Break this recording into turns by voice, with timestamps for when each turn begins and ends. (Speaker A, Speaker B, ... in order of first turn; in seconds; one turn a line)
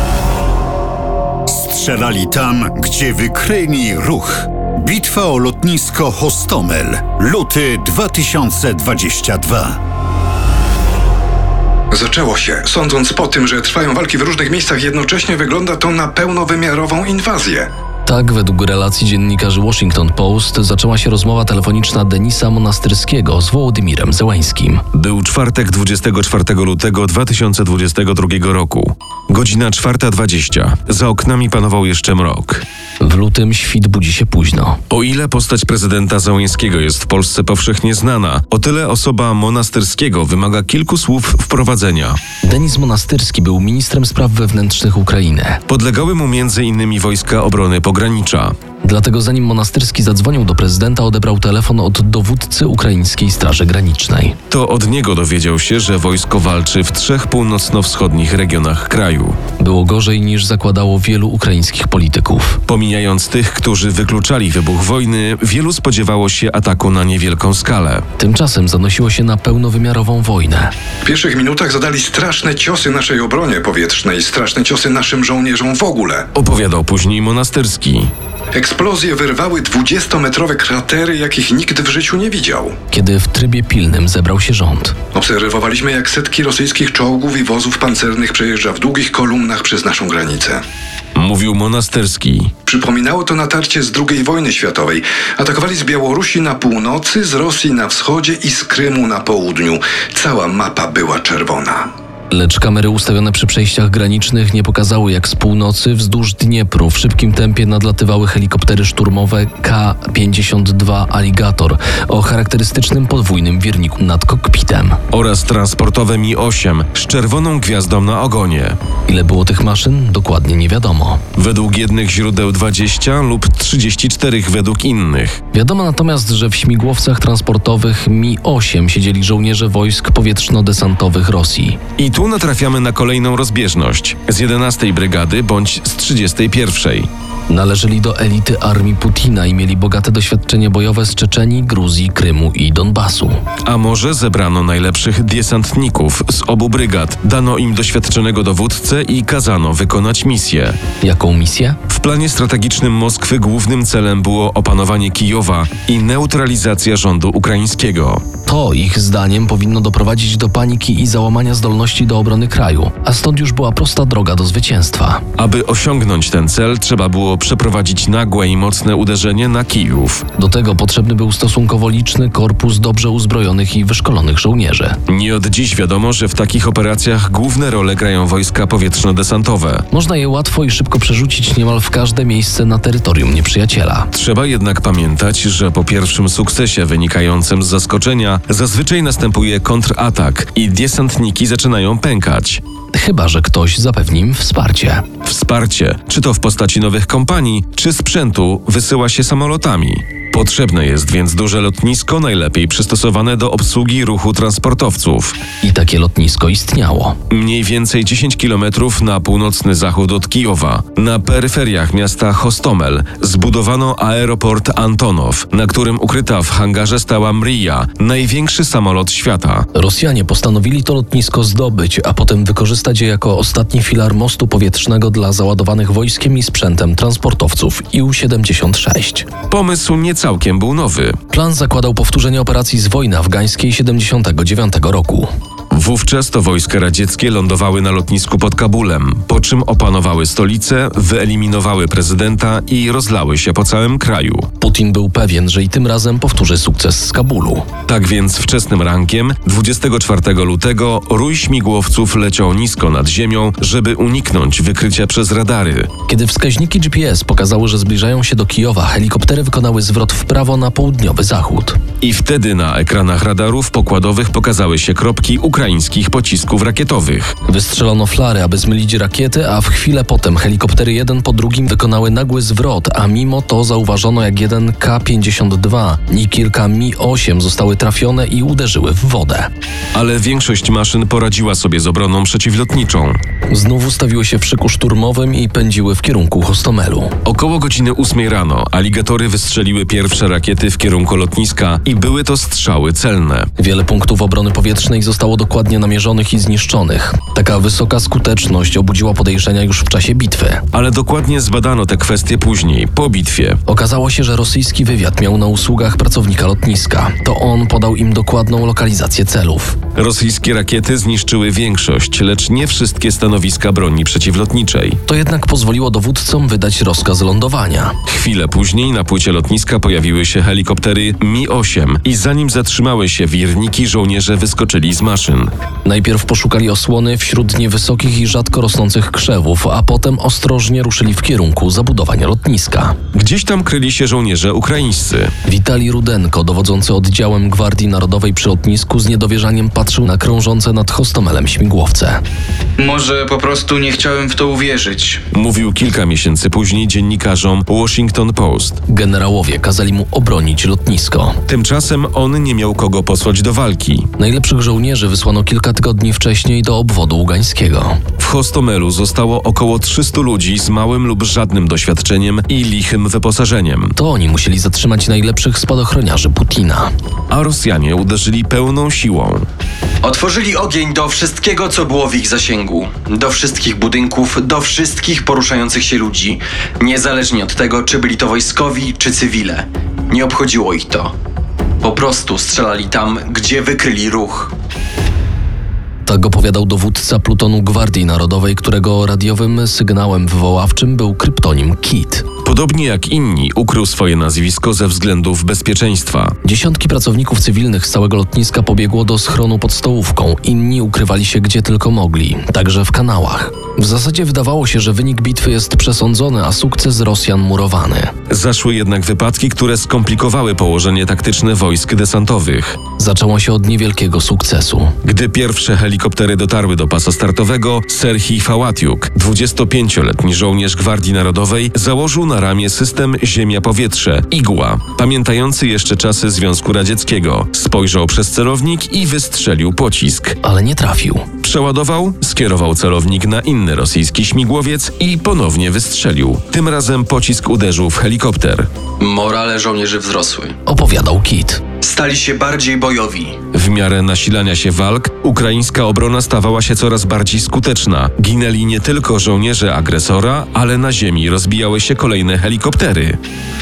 Speaker A: 1.5-9.8
Speaker B: 11.9-17.7
Speaker C: 18.1-24.8
Speaker D: 24.9-32.6
Speaker C: 33.0-34.8
Speaker D: 34.9-42.2
Speaker C: 42.4-45.6
Speaker D: 45.7-48.5
Speaker C: 48.8-54.4
Speaker D: 54.5-59.4
Speaker C: 59.6-62.6
Speaker D: 62.7-68.0
Speaker C: 68.2-70.7
Speaker B: 71.0-76.3
Speaker D: 76.3-78.1
Speaker B: 78.5-82.8
Speaker C: 82.9-85.0
Speaker B: 85.1-90.6
Speaker D: 91.2-92.5
Speaker B: 92.7-101.9
Speaker C: 102.3-115.0
Speaker D: 115.1-118.8
Speaker C: 119.1-121.2
Speaker D: 121.3-125.4
Speaker C: 125.5-131.8
Speaker D: 132.0-137.1
Speaker C: 137.5-143.4
Speaker D: 143.6-150.8
Speaker C: 151.0-151.8
Speaker D: 151.9-158.2
Speaker C: 158.4-165.2
Speaker D: 165.4-170.2
Speaker C: 170.3-175.0
Speaker D: 175.1-179.8
Speaker C: 179.9-184.1
Speaker D: 184.1-192.6
Speaker C: 192.9-195.1
Speaker D: 195.2-205.4
Speaker C: 205.6-207.2
Speaker D: 207.3-219.7
Speaker C: 219.7-229.3
Speaker D: 229.5-231.2
Speaker C: 231.3-235.3
Speaker D: 235.7-244.5
Speaker C: 244.6-247.7
Speaker D: 247.9-255.9
Speaker C: 256.1-261.8
Speaker D: 262.0-267.3
Speaker C: 267.4-279.5
Speaker D: 279.9-283.2
Speaker C: 283.5-287.1
Speaker D: 287.2-293.5
Speaker C: 293.6-300.6
Speaker D: 300.7-303.6
Speaker C: 303.7-309.8
Speaker D: 309.9-315.0
Speaker C: 315.1-317.9
Speaker D: 318.1-325.5
Speaker C: 325.8-333.0
Speaker D: 333.1-335.3
Speaker C: 335.4-342.2
Speaker E: 342.8-345.2
Speaker D: 345.3-348.8
Speaker C: 348.9-351.4
Speaker D: 351.4-354.1
Speaker C: 354.2-358.0
Speaker D: 358.2-363.9
Speaker C: 363.9-366.9
Speaker D: 367.3-369.4
Speaker F: 370.0-381.1
Speaker F: 381.8-384.5
Speaker C: 386.0-392.2
Speaker D: 392.4-396.3
Speaker C: 396.4-408.1
Speaker D: 408.3-412.8
Speaker C: 413.0-414.9
Speaker D: 415.0-430.4
Speaker C: 430.4-431.3
Speaker D: 431.4-438.7
Speaker F: 439.0-440.5
Speaker C: 440.6-441.6
Speaker F: 441.8-443.4
Speaker D: 443.5-453.2